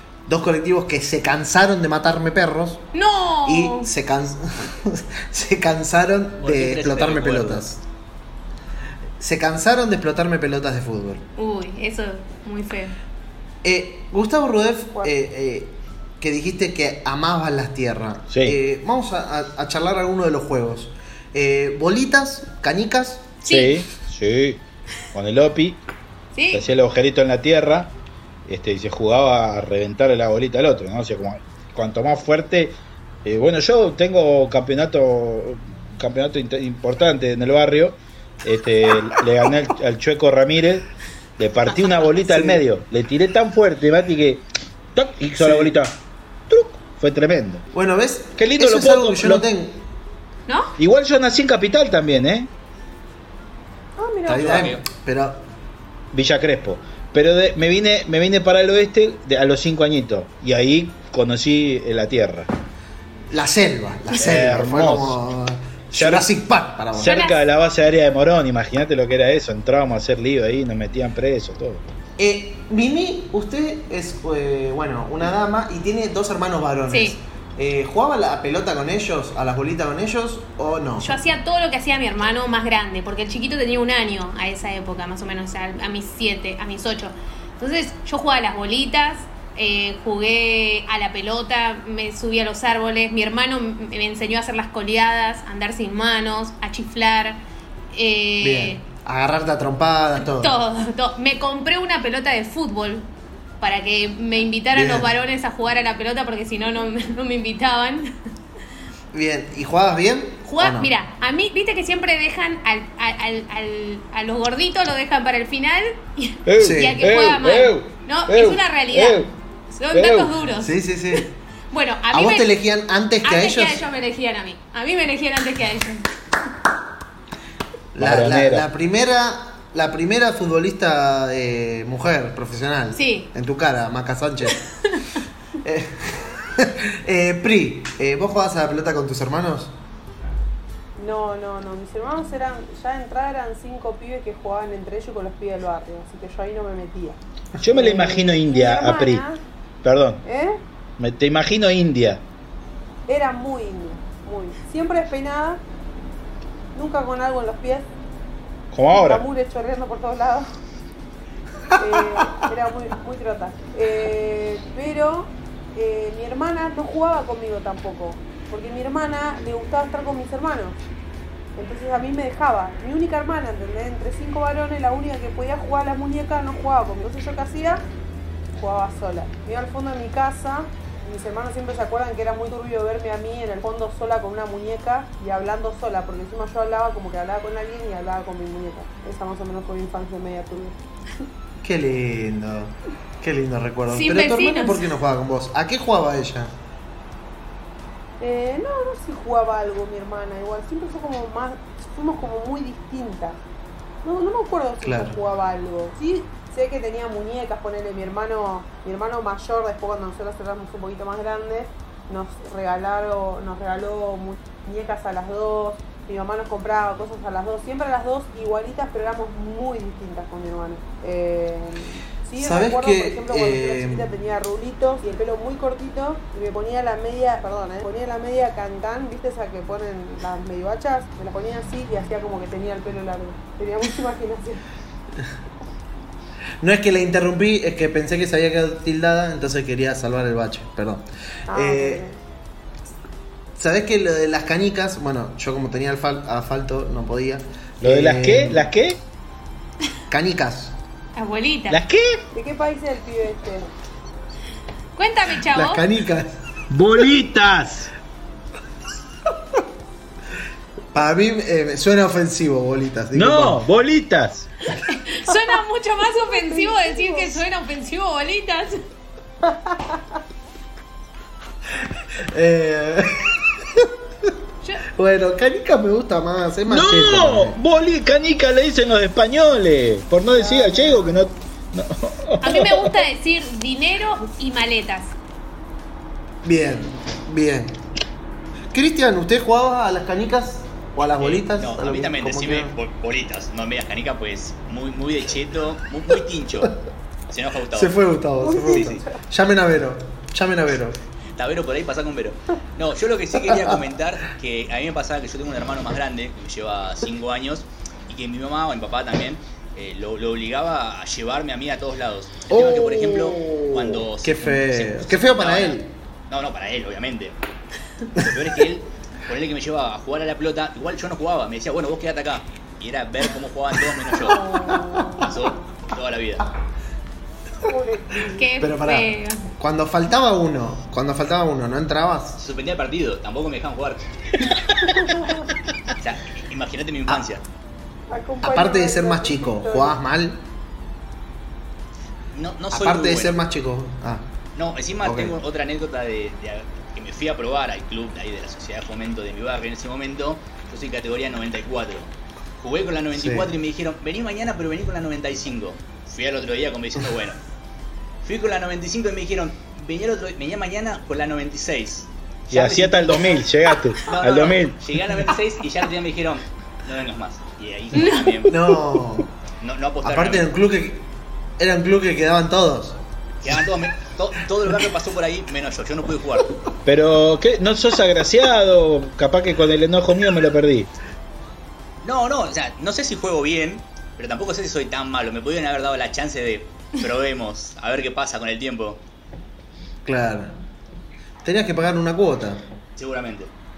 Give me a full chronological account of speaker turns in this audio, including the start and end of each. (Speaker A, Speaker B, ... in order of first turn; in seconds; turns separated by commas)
Speaker A: 0.3-2.9, Speaker B: 2.9-3.9, Speaker A: 3.5-7.8, Speaker C: 6.4-7.7, Speaker A: 9.2-11.2, Speaker B: 11.4-13.0, Speaker A: 13.6-23.3, Speaker D: 18.3-18.6, Speaker B: 23.4-23.8, Speaker D: 23.5-24.6, Speaker D: 25.1-25.8, Speaker B: 26.3-26.7, Speaker D: 26.5-27.9, Speaker D: 28.5-40.9, Speaker D: 41.4-44.4, Speaker A: 42.3-42.6, Speaker D: 45.0-46.0, Speaker A: 45.4-45.7, Speaker D: 46.5-47.6, Speaker A: 47.7-49.8, Speaker D: 48.4-49.5, Speaker B: 50.5-50.8, Speaker D: 50.8-52.5, Speaker E: 54.0-54.7, Speaker A: 54.2-55.5, Speaker C: 54.3-54.8, Speaker D: 56.1-62.5, Speaker A: 63.3-67.2, Speaker D: 64.2-65.2, Speaker D: 65.9-66.3, Speaker D: 67.0-71.8, Speaker B: 67.0-67.4, Speaker A: 72.2-81.2, Speaker B: 76.9-77.2, Speaker B: 81.0-98.8, Speaker A: 98.4-100.6, Speaker B: 100.3-103.1, Speaker B: 103.6-108.1, Speaker A: 104.7-105.1, Speaker A: 109.1-110.9, Speaker B: 110.5-122.5, Speaker D: 116.5-119.3, Speaker A: 116.6-117.0, Speaker D: 119.9-120.3, Speaker A: 120.6-121.4, Speaker A: 122.1-123.8, Speaker B: 123.2-126.1, Speaker A: 128.0-134.6, Speaker D: 128.0-128.6, Speaker B: 132.9-133.3, Speaker A: 135.6-139.8, Speaker E: 141.0-149.4, Speaker D: 147.6-149.2, Speaker D: 149.8-150.2, Speaker E: 150.2-150.6, Speaker D: 151.0-152.2, Speaker E: 153.1-155.6, Speaker E: 156.7-157.9, Speaker D: 158.7-159.3, Speaker E: 158.9-160.5, Speaker E: 161.8-170.8, Speaker E: 171.6-177.8, Speaker E: 178.6-190.8, Speaker A: 191.6-196.6, Speaker B: 193.9-194.8, Speaker E: 198.2-203.4, Speaker E: 204.0-234.6, Speaker A: 204.8-205.2, Speaker A: 222.4-224.1, Speaker A: 236.6-242.0, Speaker E: 241.5-242.2, Speaker A: 243.6-248.7, Speaker D: 247.8-249.0, Speaker A: 250.1-250.8, Speaker B: 251.2-251.8, Speaker D: 251.7-252.2, Speaker E: 252.3-253.7, Speaker B: 255.0-255.8, Speaker A: 255.5-256.4, Speaker D: 256.7-257.9, Speaker A: 260.9-263.6, Speaker D: 263.1-264.5, Speaker B: 264.8-268.8, Speaker E: 266.1-267.4, Speaker E: 269.5-269.9, Speaker A: 272.2-274.3, Speaker A: 274.9-277.6, Speaker D: 276.7-283.0, Speaker E: 280.4-281.2, Speaker B: 282.4-285.1, Speaker A: 286.4-287.8, Speaker A: 288.7-292.8, Speaker C: 291.2-296.7, Speaker C: 297.3-298.0, Speaker A: 297.7-301.0, Speaker E: 298.4-299.2, Speaker C: 298.6-299.0, Speaker C: 301.4-317.4, Speaker A: 303.5-303.8, Speaker A: 312.5-315.9, Speaker C: 318.1-324.6, Speaker E: 324.2-325.6, Speaker C: 325.1-326.5, Speaker E: 327.6-328.5, Speaker B: 328.4-329.4, Speaker A: 328.6-332.4, Speaker C: 332.4-334.1, Speaker C: 336.0-337.4, Speaker E: 338.1-340.0, Speaker A: 338.4-340.4, Speaker C: 342.3-343.4, Speaker A: 342.7-344.3, Speaker C: 344.6-357.4, Speaker A: 345.0-345.4, Speaker A: 353.1-353.5, Speaker C: 358.2-363.4, Speaker D: 362.5-364.8, Speaker C: 364.0-368.6, Speaker B: 368.0-368.5, Speaker A: 368.5-369.3, Speaker C: 369.6-370.5, Speaker A: 370.0-371.1, Speaker A: 371.6-373.0, Speaker C: 373.4-376.6, Speaker D: 376.9-380.9, Speaker C: 382.0-389.0, Speaker A: 390.1-390.5, Speaker A: 391.4-392.6, Speaker C: 393.0-393.5